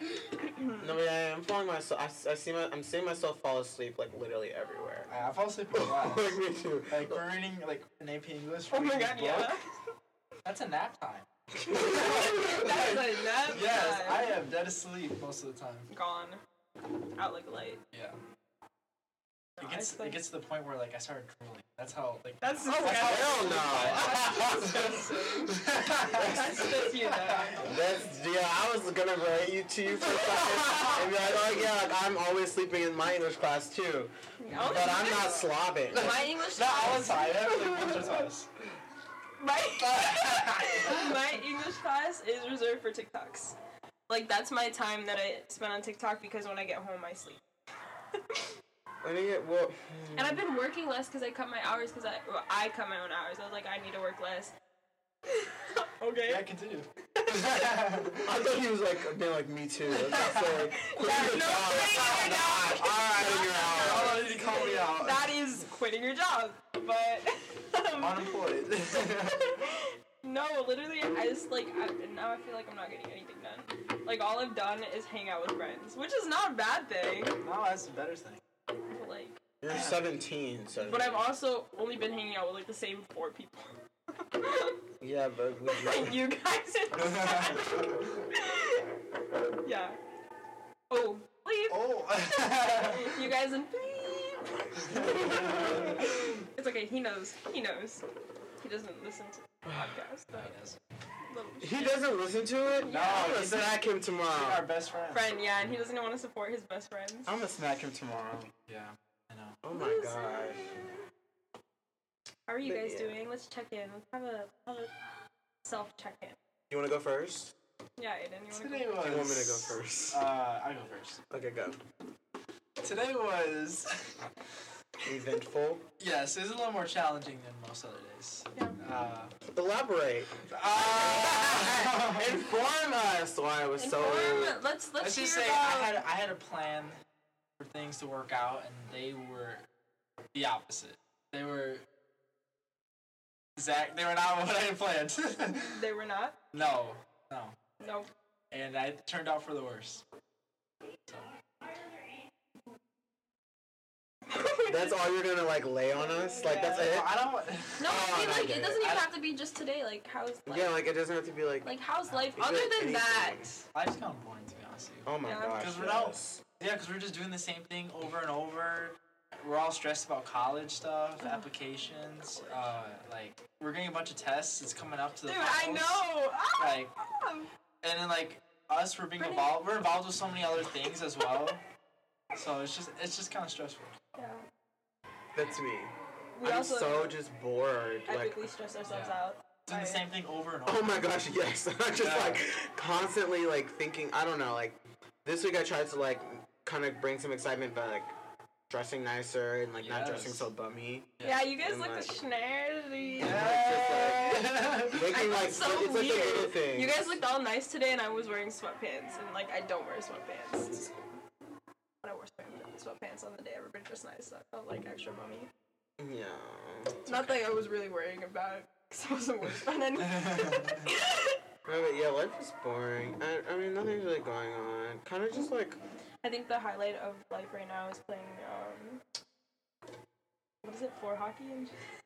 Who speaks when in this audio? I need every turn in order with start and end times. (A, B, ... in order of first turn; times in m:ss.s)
0:00.4-0:00.8 A
0:00.8-0:05.1 B
0:05.1-0:06.4 C
0:05.7-0:07.2 B
0:06.9-0:09.5 C
0:08.7-0:09.6 A
0:10.4-0:15.9 C
0:11.5-0:13.0 B
0:11.8-0:14.4 A
0:15.9-0:16.4 A
0:17.2-0:17.8 A
0:19.6-0:20.2 A
0:19.6-0:27.8 C
0:22.4-0:27.7 A
0:22.6-0:25.0 B
0:26.1-0:26.9 B
0:27.6-0:36.4 B
0:30.0-0:31.2 C
0:34.4-0:38.0 A
0:35.9-0:38.5 C
0:39.4-0:43.6 A
0:39.8-0:41.1 C
0:44.1-0:47.4 A
0:48.1-0:48.5 A
0:49.0-0:50.4 B
0:50.2-0:54.5 A
0:55.3-0:56.4 A
0:56.3-0:58.3 C
0:57.2-0:57.9 A
0:58.2-1:04.6 B
0:59.9-1:00.7 C
1:00.3-1:08.4 A
1:03.8-1:05.3 C
1:08.0-1:09.5 C
1:08.9-1:17.4 A
1:17.4-1:18.4 C
1:18.9-1:19.4 A
1:19.6-1:21.2 B
1:19.7-1:20.1 C
1:20.8-1:24.8 A
1:25.0-1:26.2 B
1:25.7-1:28.8 A
1:27.0-1:28.2 C
1:29.6-1:30.0 A
1:30.9-1:38.0 A
1:31.7-1:33.2 C
1:34.9-1:36.3 C
1:35.0-1:35.9 B
1:38.6-1:40.6 A
1:39.6-1:39.9 B
1:40.3-1:40.8 C
1:41.2-1:42.1 A
1:41.6-1:44.7 B
1:42.8-1:43.4 A
1:42.9-1:45.3 C
1:45.1-1:47.3 A
1:47.3-1:48.5 B
1:48.7-1:49.6 C
1:49.6-1:50.6 B
1:49.7-1:51.0 A
1:52.5-1:55.0 A
1:52.6-1:53.2 B
1:55.6-1:56.4 A
1:56.7-1:57.5 B
1:58.0-1:59.2 A
1:58.5-2:01.2 C
1:59.0-2:00.2 B
2:01.3-2:01.8 B
2:02.8-2:04.1 C
2:05.0-2:05.8 B
2:06.0-2:09.3 C
2:09.5-2:14.6 B
2:10.5-2:12.4 C
2:13.8-2:16.0 A
2:15.0-2:17.0 C
2:17.6-2:19.6 C
2:20.3-2:21.8 C
2:23.6-2:25.8 C
2:25.6-2:26.4 A
2:26.5-2:27.6 C
2:27.8-2:28.1 A
2:28.5-2:30.0 C
2:34.3-2:35.0 A
2:34.7-2:37.1 B
2:35.9-2:36.9 A
2:36.8-2:37.9 C
2:37.8-2:40.8 A
2:37.8-2:38.9 B
2:38.8-2:39.1 C
2:40.5-2:41.7 B
2:41.6-2:43.6 A
2:42.4-2:43.5 B
2:43.7-2:56.0 C
2:45.1-2:46.4 B
2:45.2-2:45.6 A
2:51.2-2:51.5 A
2:55.2-2:57.5 A
2:56.6-2:56.9 C
2:57.8-3:01.6 C
2:59.2-2:59.6 A
3:02.4-3:04.0 C
3:04.2-3:04.4 A
3:05.3-3:08.5 B
3:06.4-3:07.2 A
3:08.1-3:10.0 A
3:08.8-3:11.0 C
3:10.7-3:18.1 B
3:12.0-3:12.4 C
3:18.7-3:22.1 B
3:19.8-3:20.5 C
3:21.2-3:21.5 C
3:21.2-3:24.6 A
3:23.2-3:27.2 B
3:23.2-3:25.1 C
3:25.1-3:31.1 A
3:32.0-3:35.5 A
3:36.0-3:37.4 B
3:37.0-3:41.4 A
3:40.0-3:40.9 C
3:41.7-3:45.8 B
3:46.2-3:49.0 A
3:50.6-3:51.8 A